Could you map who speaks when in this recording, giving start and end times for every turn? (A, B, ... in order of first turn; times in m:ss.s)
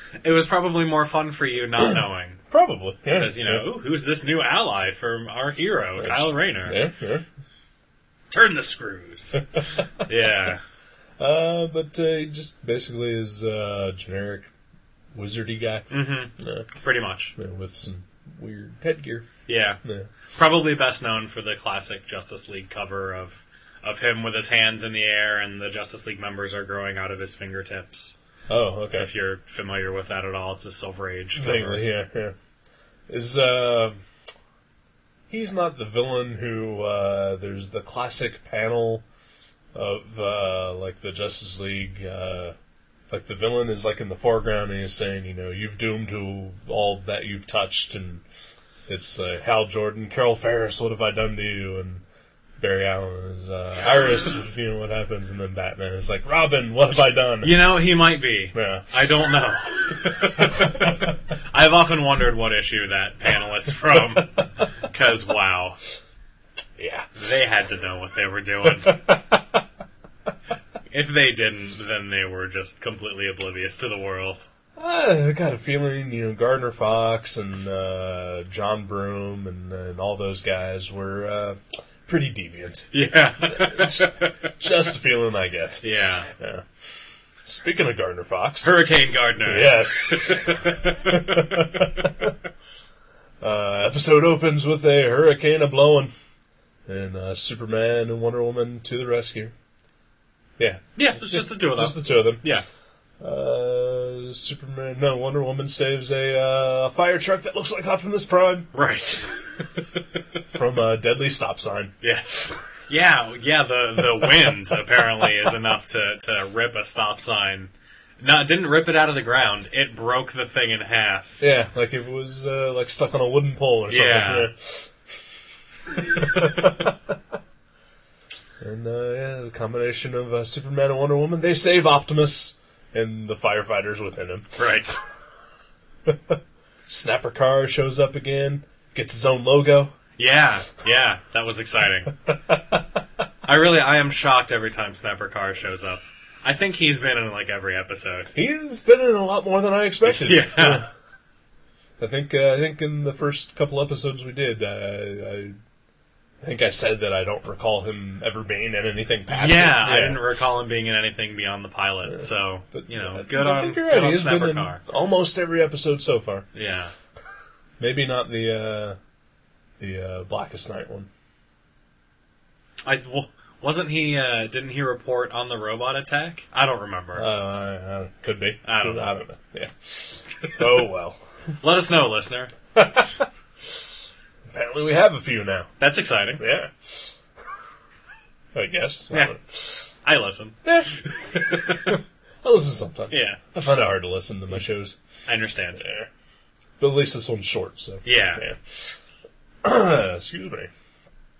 0:00.2-0:02.4 A
0:02.5-0:03.6 B
0:03.1-0:06.8 A
0:06.0-0:07.2 B
0:08.3-0:10.6 A
0:11.2-0:14.5 B
0:15.1-0:16.7 B
0:15.9-0:17.3 A
0:17.4-0:19.3 B
0:19.5-0:19.8 A
0:19.8-0:20.1 B
0:20.3-0:28.2 A
0:28.5-0:29.1 B
0:29.0-0:31.8 A
0:31.4-0:32.4 B
0:33.1-0:34.0 B
0:35.3-0:39.0 B
0:39.7-0:42.5 B
0:43.1-0:48.2 B
0:48.9-0:52.0 B
0:52.6-0:57.6 B
0:57.4-1:05.8 A
0:58.5-0:58.9 B
1:00.6-1:00.9 B
1:06.8-1:07.1 B
1:07.1-1:09.0 A
1:08.8-1:09.4 B
1:10.9-1:14.5 A
1:14.8-1:22.9 B
1:22.9-1:24.5 A
1:23.4-1:26.6 B
1:25.8-1:26.3 A
1:27.4-1:28.7 B
1:28.6-1:31.8 A
1:29.4-1:32.3 B
1:33.4-1:36.1 B
1:36.9-1:39.5 B
1:40.6-1:42.4 B
1:41.0-1:42.6 A
1:43.2-1:48.7 B
1:48.7-1:49.4 A
1:50.5-1:51.9 B
1:52.0-2:01.4 A
2:01.4-2:04.9 B
2:03.9-2:04.5 A
2:05.9-2:07.1 B
2:08.6-2:14.5 B
2:14.6-2:15.0 A
2:16.0-2:19.9 B
2:20.2-2:22.1 A
2:23.4-2:28.3 A
2:28.3-2:30.9 B
2:30.0-2:30.8 A
2:32.0-2:35.6 B
2:36.4-2:40.2 B
2:39.3-2:44.8 A
2:42.1-2:46.5 B
2:46.5-2:46.9 A
2:47.8-2:49.0 B
2:49.8-2:51.1 B
2:52.8-2:57.3 A
2:57.2-3:01.2 B
2:58.6-2:59.0 A
3:01.6-3:02.5 A
3:02.8-3:03.2 B
3:04.5-3:05.7 B
3:05.8-3:06.4 A
3:06.4-3:07.1 B
3:08.5-3:09.9 B
3:10.0-3:12.0 A
3:10.6-3:10.9 B
3:11.5-3:11.9 B
3:12.4-3:15.0 B
3:13.1-3:13.6 A
3:15.3-3:15.8 A
3:15.8-3:16.1 B
3:16.8-3:19.0 B
3:18.0-3:18.4 A
3:19.6-3:20.7 B